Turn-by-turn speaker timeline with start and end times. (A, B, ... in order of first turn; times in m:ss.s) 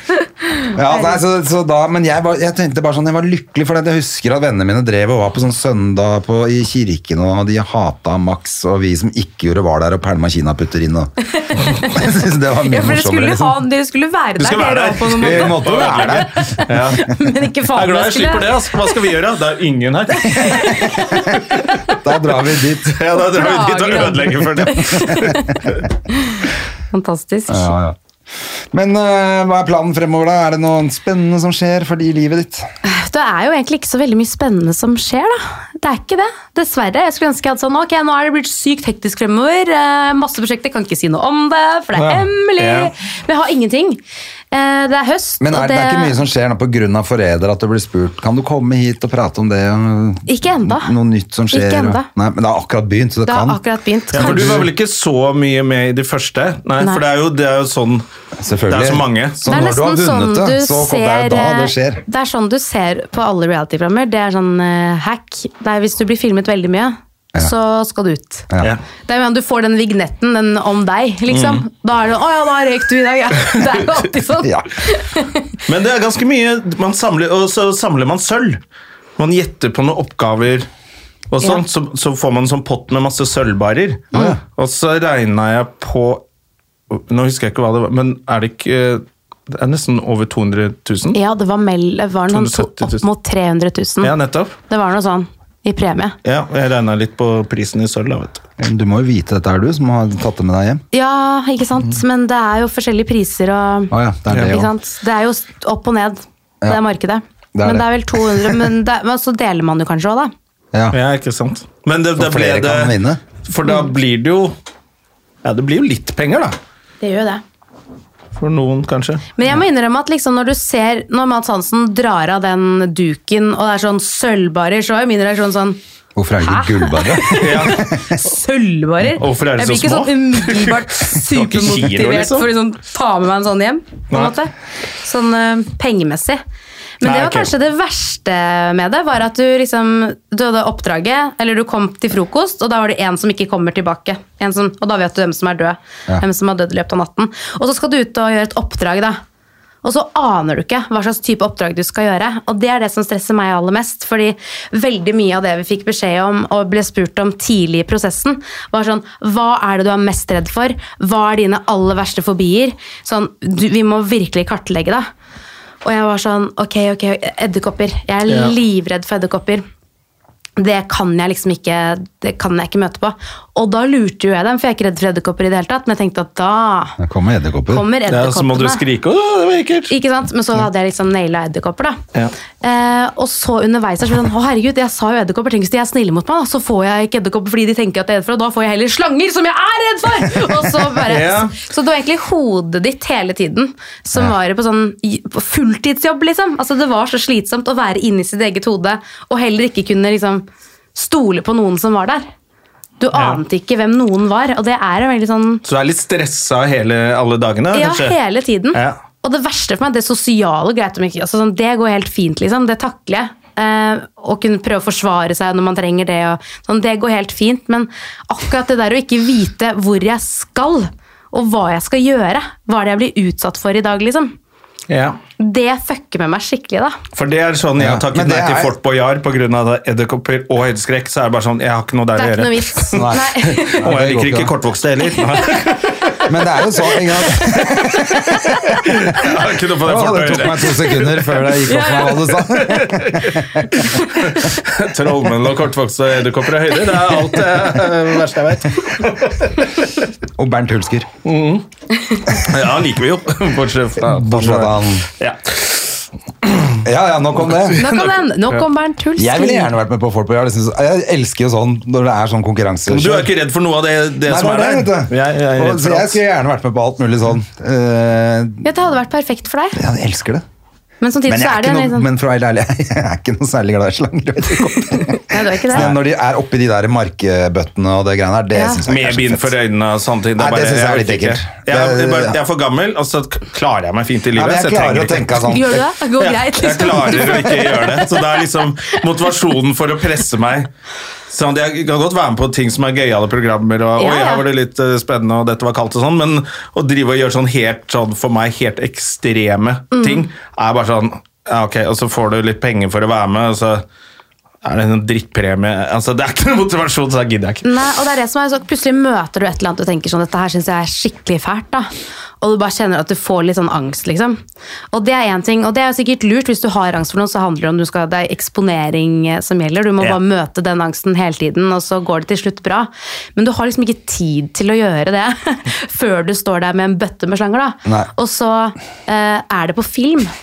0:00.6-0:01.2 A
0:00.7-0:11.1 B
0:11.3-0:11.8 A
0:11.7-0:13.6 B
0:12.7-0:15.6 A
0:14.4-0:17.2 C
0:15.2-0:16.6 B
0:16.4-0:18.9 A
0:17.7-0:20.8 C
0:20.2-0:22.0 A
0:20.8-0:21.2 B
0:21.9-0:22.9 B
0:22.8-0:25.2 C
0:23.2-0:27.7 A
0:24.8-0:25.5 B
0:27.5-0:28.0 B
0:28.7-0:32.7 B
0:32.8-0:44.0 A
0:42.0-0:42.2 B
0:42.6-0:42.9 C
0:44.5-0:46.2 A
0:45.4-0:53.6 B
0:50.3-0:50.9 A
0:51.5-0:52.1 A
0:53.2-0:54.7 A
0:54.1-0:54.7 B
0:54.1-0:58.0 C
0:58.4-1:02.0 B
0:58.7-0:59.5 C
0:59.5-1:08.5 A
1:09.1-1:15.6 A
1:11.3-1:11.6 C
1:14.4-1:14.7 B
1:15.7-1:18.6 C
1:19.2-1:20.7 C
1:21.3-1:26.2 C
1:24.1-1:24.4 B
1:26.9-1:31.2 C
1:31.1-1:34.1 A
1:32.3-1:33.0 C
1:34.0-1:34.5 C
1:34.7-1:36.2 A
1:36.2-1:38.4 C
1:38.6-1:40.8 B
1:40.9-1:50.3 A
1:43.9-1:44.7 B
1:44.3-1:44.6 C
1:47.5-1:48.6 B
1:50.9-1:54.5 C
1:52.2-1:53.2 B
1:55.4-1:56.6 C
1:57.0-1:57.4 A
1:58.4-1:59.2 C
1:59.4-2:05.8 A
2:06.2-2:08.1 B
2:06.4-2:16.4 A
2:07.4-2:07.8 C
2:09.2-2:12.5 C
2:17.0-2:29.2 A
2:17.0-2:17.5 C
2:29.8-2:45.1 A
2:45.8-2:49.6 A
2:48.3-2:48.5 C
2:50.6-2:57.0 A
2:57.0-2:57.8 B
2:57.7-2:58.8 A
2:58.1-2:59.9 C
2:59.9-3:02.0 A
3:02.6-3:22.2 A
3:11.0-3:11.5 C
3:23.0-3:25.6 A
3:23.1-3:23.4 C
3:25.6-3:28.2 C
3:27.7-3:44.3 A
3:44.9-3:45.2 C
3:45.4-3:47.0 A
3:47.1-3:53.1 C
3:47.8-3:48.7 B
3:52.2-3:53.8 A
3:52.9-3:54.5 B
3:53.6-3:56.2 C
3:56.2-3:58.3 B
3:57.5-3:58.8 A
3:58.8-4:01.6 C
3:59.8-4:03.8 B
4:01.7-4:02.2 A
4:02.5-4:09.8 C
4:03.7-4:04.1 A
4:10.4-4:11.1 B
4:11.2-4:11.6 C
4:12.3-4:16.6 C
4:14.0-4:15.1 B
4:16.8-4:17.8 B
4:17.5-4:18.6 C
4:17.8-4:19.7 A
4:19.2-4:23.3 B
4:22.9-4:26.2 C
4:24.2-4:28.8 B
4:28.6-4:29.8 A
4:29.7-4:30.4 B
4:31.0-4:32.0 A
4:31.2-4:39.5 B
4:35.0-4:35.9 A
4:38.5-4:38.8 A
4:38.8-4:45.5 C
4:40.4-4:42.4 B
4:44.3-4:45.8 B
4:45.4-4:48.3 A
4:46.2-4:50.7 C
4:51.3-5:03.8 C
4:54.0-4:54.4 A
4:59.9-5:00.2 A
5:04.6-5:07.6 C
5:07.6-5:11.9 A
5:12.4-5:14.4 A
5:14.9-5:30.3 A
5:27.8-5:28.1 B